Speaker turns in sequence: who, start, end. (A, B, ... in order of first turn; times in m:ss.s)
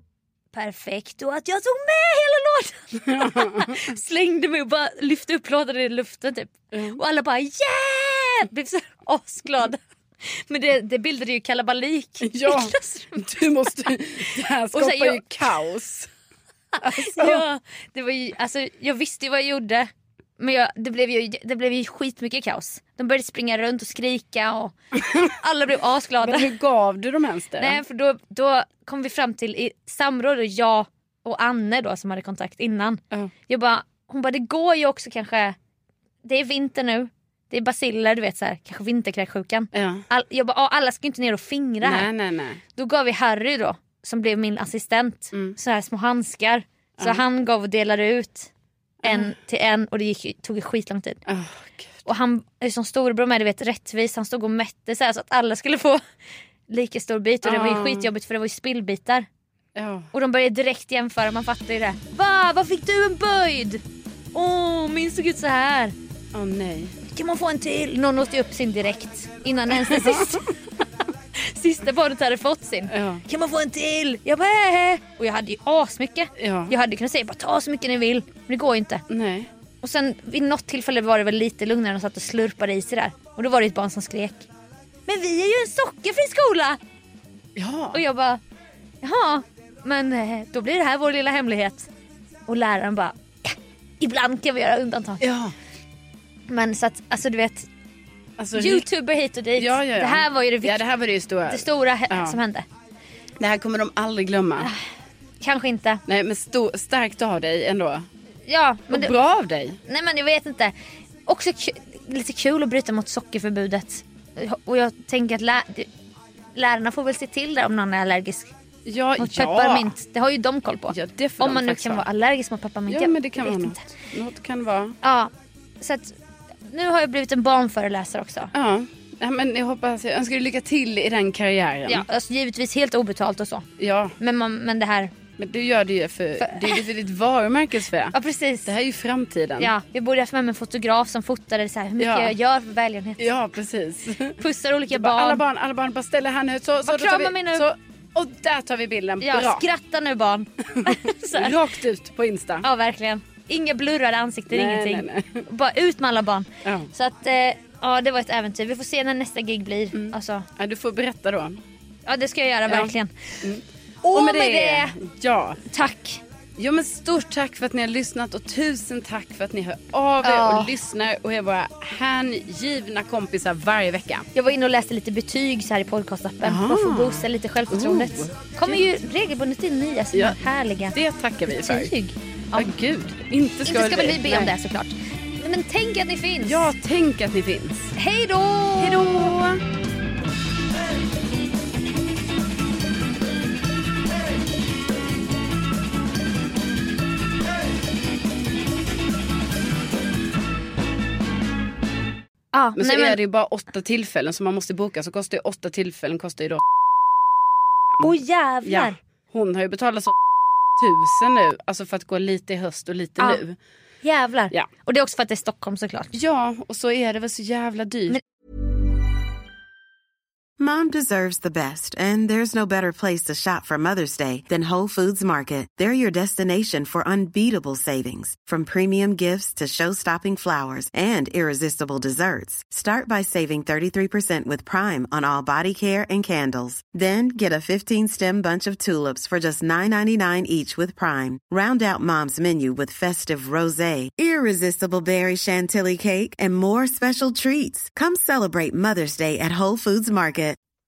0:00.5-0:13.3 A
0:03.1-0:03.8 B
0:06.7-0:07.0 B
0:12.2-0:16.1 B
0:14.7-0:15.6 A
0:16.8-0:26.5 A
0:16.8-0:17.4 B
0:25.0-0:25.3 B
0:26.2-0:27.8 B
0:27.6-0:35.6 A
0:36.2-0:42.1 A
0:39.7-0:40.0 B
0:41.8-0:42.6 B
0:42.8-0:48.5 A
0:49.0-0:49.3 B
0:49.0-0:51.2 A
0:51.3-0:52.1 B
0:52.1-0:56.0 A
0:56.7-0:59.3 A
0:57.4-0:58.1 B
0:59.8-1:00.1 B
1:00.1-1:03.8 A
1:04.3-1:05.9 A
1:06.3-1:07.0 B
1:07.1-1:10.6 A
1:09.7-1:10.4 B
1:11.4-1:19.0 A
1:12.9-1:13.2 B
1:16.4-1:16.8 B
1:19.1-1:19.5 B
1:19.8-1:24.5 A
1:25.1-1:26.8 A
1:27.6-1:28.0 B
1:27.9-1:28.4 A
1:29.0-1:31.9 A
1:32.5-1:35.2 A
1:35.2-1:35.5 B
1:36.5-1:37.7 A
1:38.4-1:38.9 B
1:38.6-1:40.8 A
1:39.6-1:42.4 B
1:41.5-1:42.7 A
1:43.4-1:44.7 B
1:45.4-1:46.0 A
1:46.1-1:48.1 B
1:48.5-1:49.1 A
1:48.9-1:49.8 B
1:49.9-1:50.7 A
1:51.3-1:55.9 A
1:56.6-1:58.5 A
1:58.9-1:59.9 B
1:59.2-2:03.8 A
2:00.9-2:02.1 B
2:02.9-2:05.0 B
2:05.0-2:06.1 A
2:06.7-2:08.5 A
2:08.5-2:12.0 B
2:11.9-2:13.7 A
2:13.8-2:14.2 B
2:14.2-2:15.1 A
2:15.4-2:18.2 B
2:16.4-2:16.8 A
2:18.1-2:18.7 A
2:18.7-2:19.7 B
2:19.6-2:23.2 A
2:22.0-2:22.3 B
2:23.2-2:24.4 B
2:24.4-2:25.4 A
2:24.9-2:29.6 B
2:26.8-2:27.6 A
2:29.2-2:31.6 A
2:30.7-2:32.6 B
2:32.6-2:40.5 A
2:34.5-2:35.5 B
2:36.6-2:36.9 B
2:39.9-2:41.6 B
2:42.1-2:43.4 A
2:42.7-2:45.6 B
2:44.0-2:45.0 A
2:45.7-2:46.2 A
2:46.6-2:54.3 B
2:50.2-2:50.7 A
2:54.4-3:01.0 A
2:56.4-2:58.9 B
3:00.1-3:00.4 B
3:00.9-3:01.9 B
3:01.5-3:02.7 A
3:02.5-3:04.5 B
3:03.7-3:06.7 A
3:06.4-3:07.9 B
3:08.0-3:09.5 A
3:08.8-3:09.6 B
3:22.5-3:23.2 A
3:22.8-3:26.6 B
3:28.0-3:29.0 A
3:28.6-3:30.2 B
3:30.8-3:33.6 B
3:34.0-3:36.1 A
3:36.1-3:38.2 B
3:40.6-4:10.6 C